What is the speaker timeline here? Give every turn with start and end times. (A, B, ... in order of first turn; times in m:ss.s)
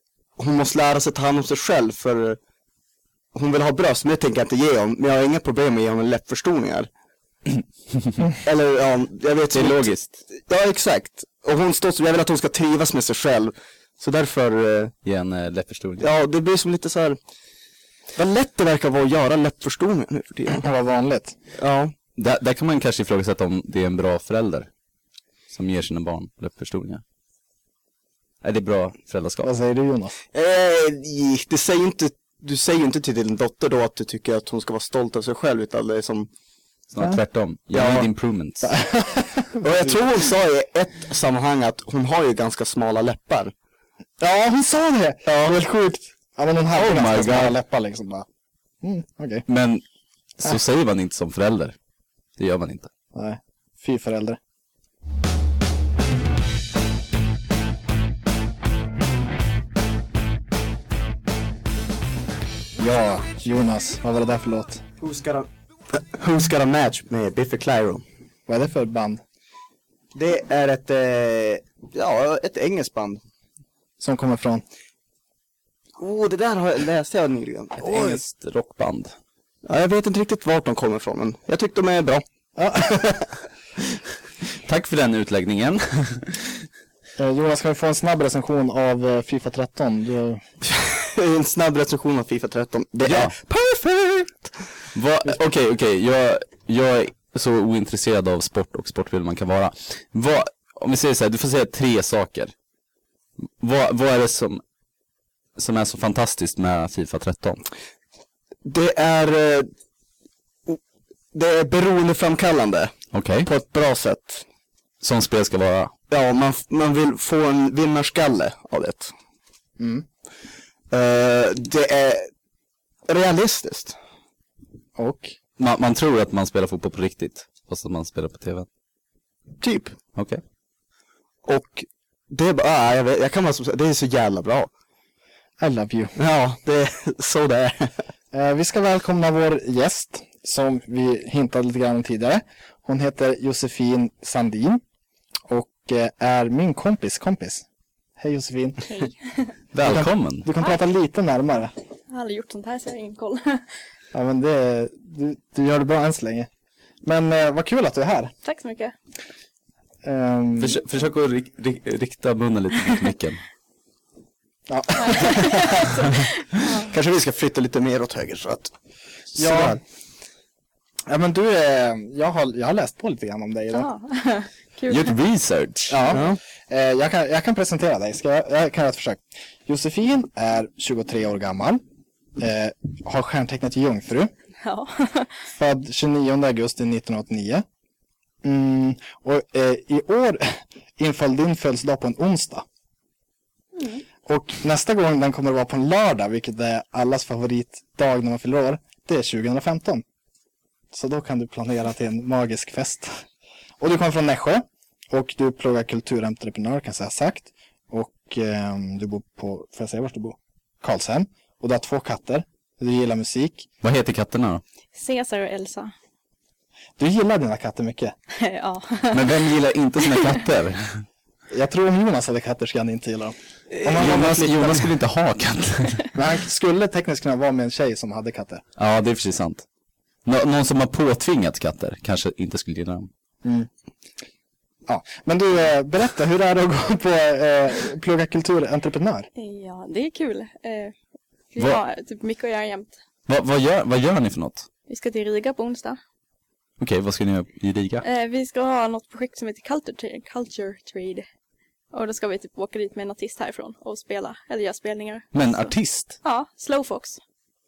0:00.4-0:02.4 A
0:03.3-0:06.9 A
0:08.4-0:14.9 A
0:09.5-0:10.2 B
0:15.0-0:16.1 B
0:16.0-0:17.2 A
0:18.2-0:20.6 A
0:20.6-0:21.4 C
0:21.6-0:21.9 A
0:22.2-0:24.7 B
0:25.5-0:27.0 B
0:28.4-0:29.5 B
0:29.4-0:30.2 C
0:30.3-0:36.3 A
0:36.9-0:38.7 B
0:37.7-0:38.1 A
0:38.6-0:39.6 C
0:39.6-0:43.5 A
0:44.2-0:48.3 C
0:45.2-0:45.6 A
0:46.7-0:47.6 B
0:48.8-0:49.5 C
0:49.5-0:49.8 B
0:50.4-0:51.8 B
0:52.4-0:52.9 B
0:53.1-0:54.4 C
1:02.8-1:04.8 C
1:05.0-1:08.0 A
1:08.5-1:09.2 C
1:10.2-1:13.2 A
1:14.0-1:14.6 C
1:16.0-1:18.2 A
1:17.8-1:19.1 B
1:19.7-1:22.2 A
1:22.6-1:23.2 C
1:24.6-1:26.6 B
1:27.2-1:30.4 C
1:30.6-1:34.5 A
1:33.1-1:33.4 B
1:35.0-1:42.5 B
1:43.6-1:44.6 B
1:45.6-1:47.6 B
1:48.6-1:49.7 A
1:51.3-1:52.9 A
1:53.1-1:53.5 B
1:53.4-1:54.4 A
1:55.0-1:55.9 B
1:56.1-1:59.1 A
1:59.8-2:00.0 C
2:00.9-2:02.3 A
2:03.1-2:04.0 A
2:05.0-2:05.4 C
2:05.6-2:08.7 B
2:09.6-2:10.0 A
2:10.2-2:10.4 B
2:11.4-2:14.7 A
2:15.6-2:16.1 C
2:16.2-2:18.0 A
2:18.3-2:24.8 C
2:25.5-2:27.6 C
2:28.2-2:28.9 C
2:28.9-2:29.4 D
2:29.7-2:30.5 B
2:29.8-2:31.7 C
2:32.1-2:33.6 D
2:34.1-2:36.5 C
2:37.0-2:38.3 C
2:38.4-2:39.0 D
2:40.0-2:40.8 C
2:40.6-2:43.4 B
2:44.7-2:46.0 C
2:45.0-2:46.9 D
2:46.8-2:48.7 A
2:49.3-2:49.8 A
2:49.4-2:49.8 C
2:51.1-2:53.9 C
2:53.7-2:55.2 D
2:54.9-2:56.1 B
2:55.9-3:01.8 C
2:56.1-2:56.4 A
3:02.4-3:04.3 C
3:04.6-3:05.3 D
3:05.6-3:07.6 C
3:08.4-3:12.6 C
3:13.8-3:14.0 D
3:14.3-3:20.0 C
3:20.9-3:23.2 C
3:23.8-3:33.7 C
3:33.8-3:34.6 B
3:35.0-3:35.9 D
3:37.0-3:38.2 C
3:38.4-3:39.5 D
3:39.1-3:41.0 B
3:40.0-3:40.4 D
3:41.5-3:44.9 C
3:43.8-3:46.1 B
3:46.2-3:48.6 C
3:48.8-3:49.6 B
3:50.2-3:53.1 B
3:53.4-3:53.7 C
3:54.9-3:59.3 C
3:59.4-4:00.9 D
4:01.5-4:03.0 D
4:03.3-4:04.7 B
4:04.9-4:06.0 D
4:06.8-4:08.0 B
4:08.0-4:11.3 D
4:11.9-4:17.2 D
4:15.3-4:16.2 B